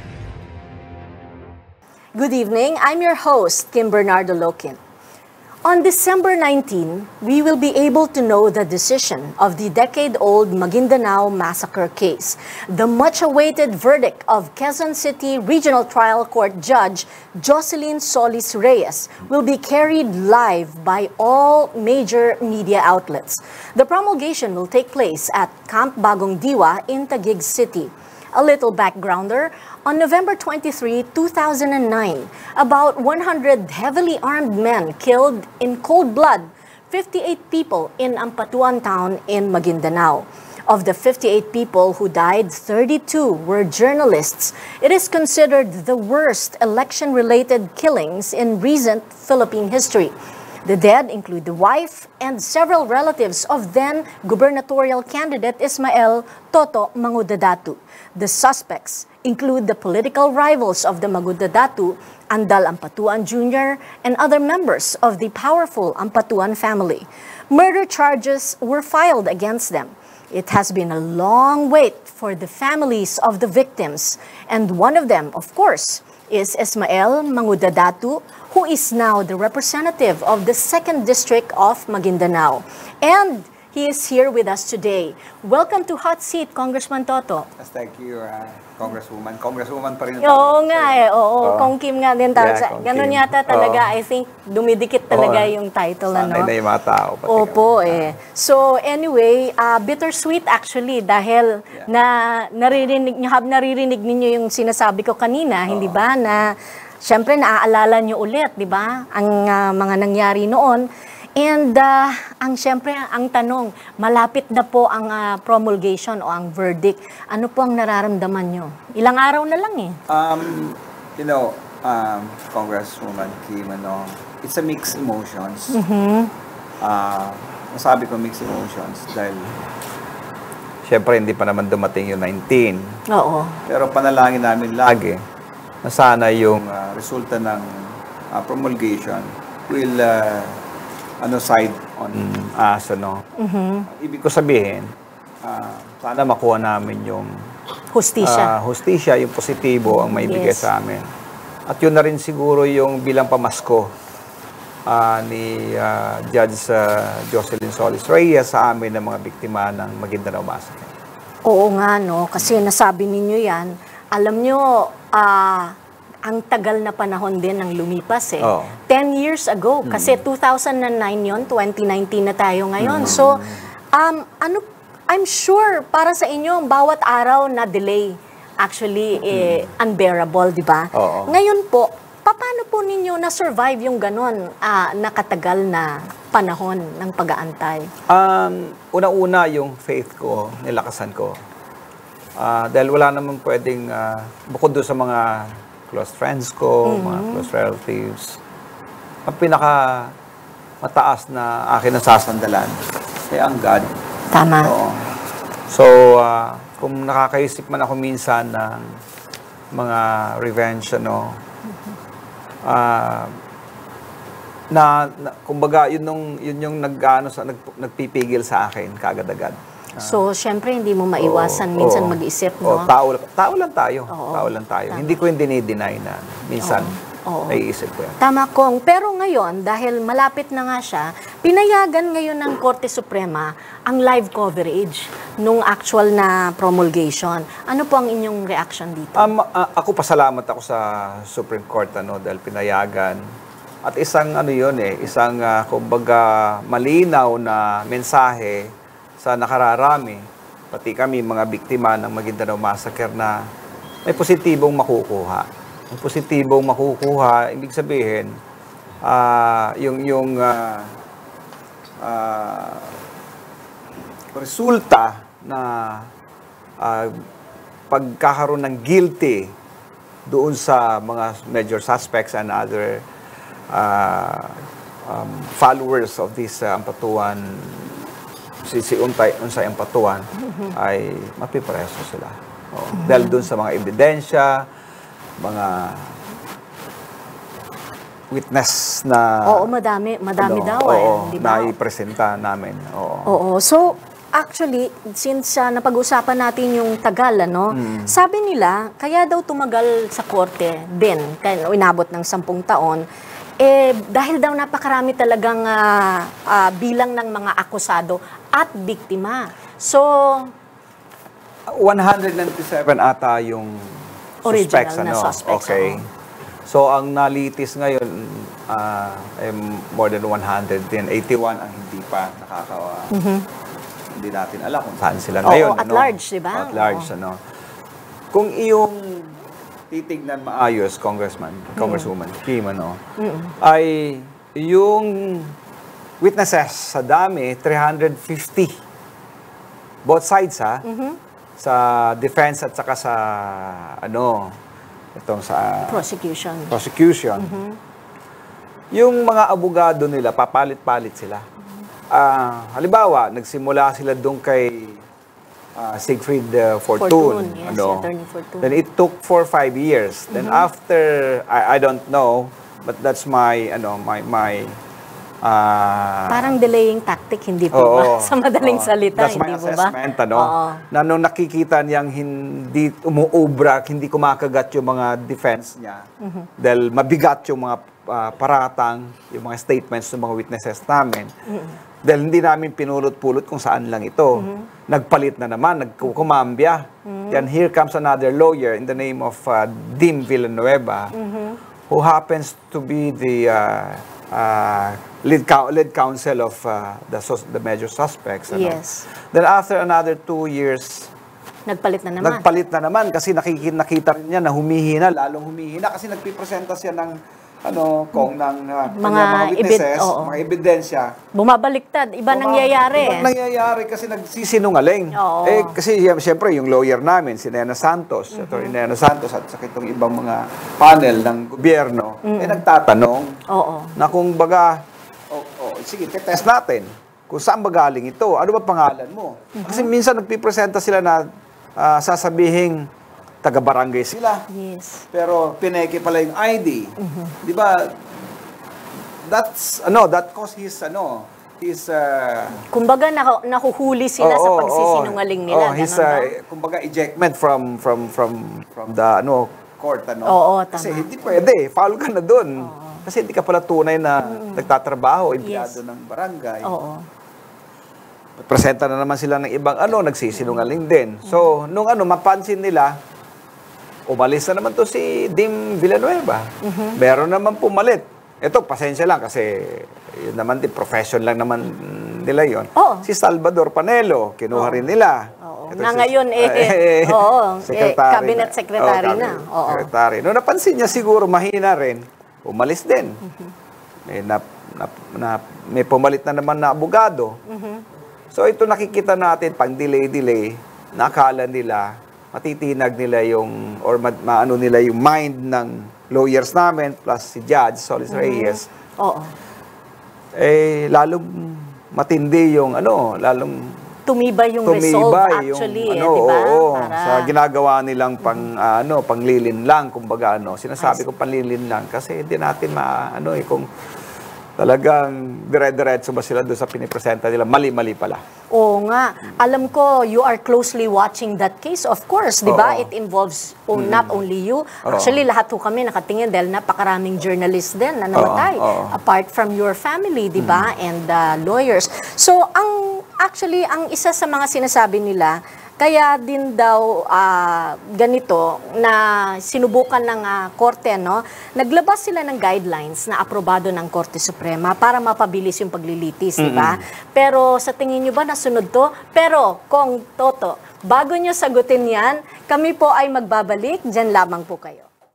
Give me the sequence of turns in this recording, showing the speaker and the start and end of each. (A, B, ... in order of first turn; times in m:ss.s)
0:02.2-0:04.8 A
0:05.6-1:27.5 A
1:27.6-1:31.8 B
1:30.2-1:36.5 A
1:32.4-1:33.9 B
1:35.1-1:35.5 B
1:36.1-1:38.1 B
1:37.3-2:00.0 A
1:45.7-1:46.0 B
2:00.1-2:05.8 B
2:05.7-2:06.3 A
2:06.8-2:09.6 B
2:10.8-2:13.0 B
2:13.1-2:13.6 A
2:13.7-2:15.2 B
2:15.8-2:20.6 B
2:21.2-2:23.2 B
2:23.4-2:23.9 A
2:23.9-2:27.3 B
2:27.9-2:28.6 A
2:28.2-2:31.0 B
2:29.9-2:30.7 A
2:31.7-2:33.9 B
2:34.9-2:40.9 B
2:41.4-2:45.8 A
2:46.3-3:07.9 A
2:48.4-2:48.8 B
2:49.8-2:50.2 B
2:52.8-2:53.6 B
2:59.2-2:59.7 B
3:00.9-3:01.4 B
3:08.1-3:11.4 B
3:12.4-3:18.4 B
3:16.8-3:17.5 A
3:19.2-3:20.1 B
3:20.8-3:22.8 B
3:23.3-3:23.9 B
3:24.3-3:24.7 A
3:24.6-3:25.1 B
3:25.7-3:28.9 B
3:29.7-3:31.4 B
3:32.6-3:33.3 B
3:34.7-3:40.2 B
3:40.0-3:42.9 A
3:41.2-3:46.9 B
3:44.1-3:45.1 A
3:46.6-3:47.6 A
3:47.5-3:48.2 B
3:48.2-3:59.3 A
3:59.1-4:03.2 B
4:03.8-4:13.4 B
4:14.0-4:18.3 B
4:19.0-4:21.0 B
4:22.0-4:23.0 B
4:24.3-4:26.1 B
4:26.8-4:27.2 B
4:27.9-4:29.5 B
4:30.3-4:33.0 B
4:33.7-4:38.0 B
4:38.6-4:44.7 B
4:43.0-4:43.4 A
4:45.4-4:46.2 B
4:48.3-4:49.7 B
4:49.4-4:51.7 A
4:50.4-4:53.4 B
4:53.2-5:03.0 A
4:57.7-4:58.1 B
5:03.6-5:10.5 A
5:11.7-5:16.1 B
5:14.4-5:16.0 A
5:16.7-5:23.1 B
5:23.1-5:23.4 A
5:24.1-5:27.4 B
5:25.4-5:27.1 A
5:28.3-5:29.4 B
5:29.9-5:33.0 B
5:31.8-5:32.1 A
5:33.2-5:33.5 A
5:33.6-5:35.5 B
5:36.2-5:38.8 B
5:40.0-5:40.8 B
5:40.8-5:41.2 A
5:41.6-5:44.6 B
5:45.1-5:46.0 B
5:45.8-5:46.7 A
5:46.7-5:47.6 B
5:47.4-5:47.8 A
5:48.9-5:51.4 B
5:52.1-5:55.0 B
5:55.8-5:58.1 B
5:57.0-5:58.7 A
5:58.6-6:04.8 B
6:00.3-6:00.6 A
6:05.4-6:06.5 B
6:06.3-6:10.8 A
6:07.7-6:16.0 B
6:16.2-6:16.5 A
6:16.6-6:21.3 B
6:21.5-6:21.7 A
6:22.0-6:31.1 B
6:24.4-6:24.7 A
6:27.0-6:27.5 A
6:31.1-6:31.6 A
6:31.9-6:41.1 B
6:38.5-6:39.1 A
6:41.7-6:42.4 A
6:42.2-6:51.1 B
6:48.9-6:50.4 A
6:51.3-6:53.3 A
6:52.3-7:03.4 B
6:55.1-6:55.8 A
6:58.3-6:58.7 A
7:02.2-7:02.6 A
7:03.5-7:04.0 A
7:04.0-7:12.9 B
7:09.5-7:09.9 A
7:13.4-7:14.5 B
7:14.5-7:15.0 A
7:15.1-7:18.0 B
7:17.0-7:17.4 A
7:19.2-7:22.6 B
7:22.7-7:26.3 A
7:24.2-7:36.7 B
7:30.2-7:31.1 A
7:32.6-7:33.0 A
7:34.2-7:34.7 A
7:35.4-7:35.8 A
7:36.6-7:37.0 A
7:38.4-7:43.0 B
7:44.1-8:03.2 B
7:46.6-7:47.0 A
7:52.8-7:53.1 A
7:54.5-7:54.8 A
7:55.4-7:59.9 A
8:04.1-8:07.4 B
8:07.5-8:07.8 A
8:08.3-8:18.6 B
8:18.1-8:19.3 A
8:20.3-8:23.7 B
8:24.1-8:27.3 A
8:24.6-8:33.7 B
8:34.6-8:38.2 B
8:38.5-9:14.9 A
8:42.4-8:42.9 B
8:43.7-8:44.1 B
8:44.8-8:45.2 B
8:48.1-8:49.0 B
8:50.4-8:50.7 B
9:06.4-9:06.8 B